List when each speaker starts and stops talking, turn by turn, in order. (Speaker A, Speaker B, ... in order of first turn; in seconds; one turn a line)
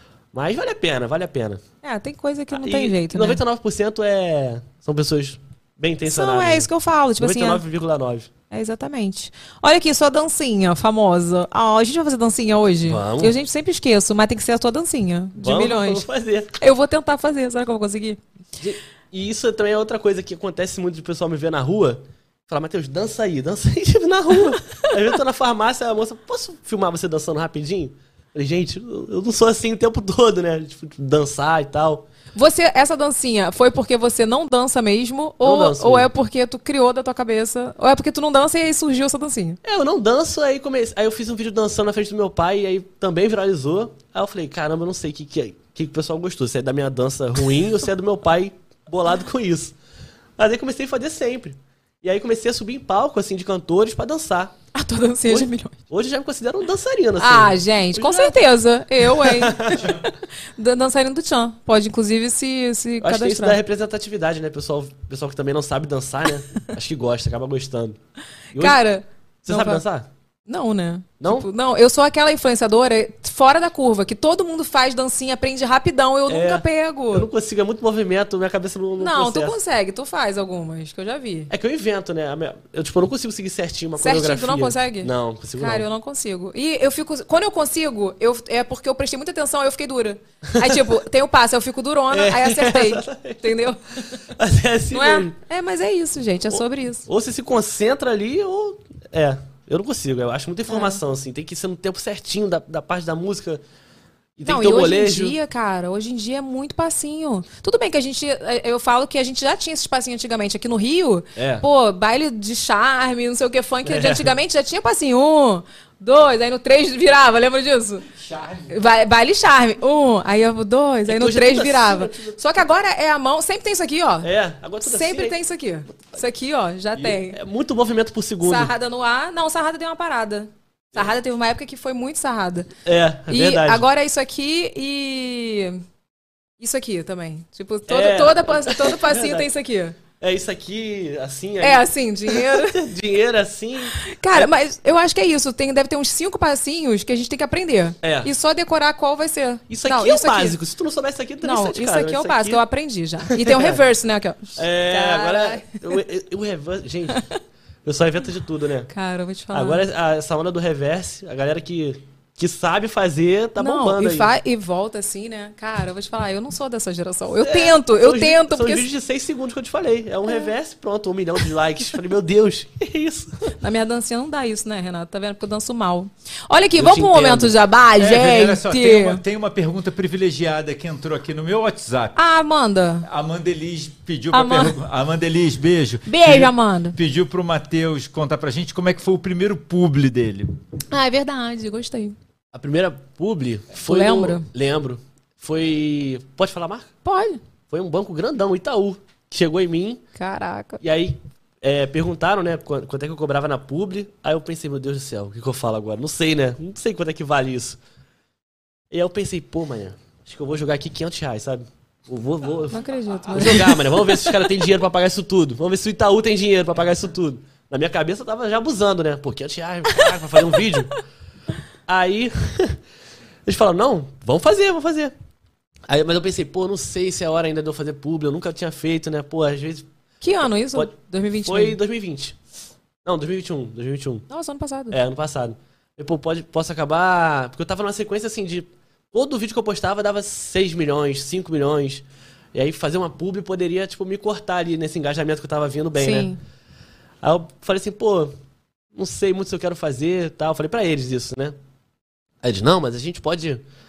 Speaker A: 0.3-1.6
Speaker B: 1.8-3.4
Speaker A: 2.5-8.3
Speaker B: 6.0-7.6
Speaker B: 8.5-16.1
Speaker A: 12.8-13.3
Speaker A: 15.4-16.5
Speaker B: 16.6-18.2
Speaker A: 18.6-32.1
Speaker B: 32.4-39.6
Speaker A: 35.4-36.1
Speaker A: 39.6-49.7
Speaker A: 50.4-54.5
Speaker B: 54.7-55.7
Speaker A: 55.3-58.4
Speaker B: 57.2-63.6
Speaker A: 59.0-59.8
Speaker C: 59.7-60.0
Speaker A: 63.0-68.0
Speaker B: 68.5-69.8
Speaker A: 68.5-68.8
Speaker A: 69.4-70.1
Speaker B: 70.5-77.3
Speaker A: 71.2-71.5
Speaker A: 76.3-79.5
Speaker B: 79.0-81.5
Speaker A: 81.5-85.8
Speaker B: 84.0-94.2
Speaker A: 92.1-93.5
Speaker A: 94.2-95.3
Speaker B: 94.9-97.0
Speaker A: 96.5-103.6
Speaker B: 100.7-101.0
Speaker A: 104.4-105.3
Speaker B: 104.4-118.1
Speaker A: 111.3-111.6
Speaker A: 113.8-114.3
Speaker C: 118.1-118.7
Speaker B: 118.7-124.3
Speaker A: 121.1-122.4
Speaker A: 124.2-125.4
Speaker B: 124.8-127.4
Speaker A: 127.0-128.7
Speaker B: 128.4-132.7
Speaker A: 132.8-133.8
Speaker B: 133.3-135.8
Speaker B: 136.6-140.0
Speaker A: 137.9-139.5
Speaker A: 140.2-144.5
Speaker B: 141.6-142.8
Speaker B: 144.0-150.6
Speaker A: 148.0-148.3
Speaker A: 149.7-152.6
Speaker B: 151.4-156.0
Speaker A: 153.3-153.8
Speaker A: 154.6-157.2
Speaker A: 157.8-158.9
Speaker B: 158.9-159.8
Speaker A: 159.5-164.3
Speaker B: 163.6-168.8
Speaker A: 167.4-173.5
Speaker B: 173.6-179.2
Speaker A: 176.8-177.5
Speaker C: 178.0-182.2
Speaker B: 182.2-183.1
Speaker C: 183.0-190.6
Speaker B: 184.3-184.8
Speaker B: 186.1-186.9
Speaker B: 190.9-192.2
Speaker A: 192.5-196.9
Speaker B: 193.8-194.4
Speaker B: 197.0-197.4
Speaker A: 197.7-200.0
Speaker B: 200.2-200.8
Speaker A: 200.8-207.8
Speaker A: 208.9-212.8
Speaker B: 212.7-214.3
Speaker A: 213.3-220.9
Speaker A: 221.9-222.8
Speaker A: 223.5-225.1
Speaker A: 225.9-229.9
Speaker B: 230.2-231.8
Speaker A: 231.4-232.3
Speaker A: 233.0-234.2
Speaker B: 234.3-235.0
Speaker A: 234.9-246.3
Speaker B: 246.0-246.4
Speaker A: 247.2-248.3
Speaker A: 248.9-251.5
Speaker A: 252.4-253.6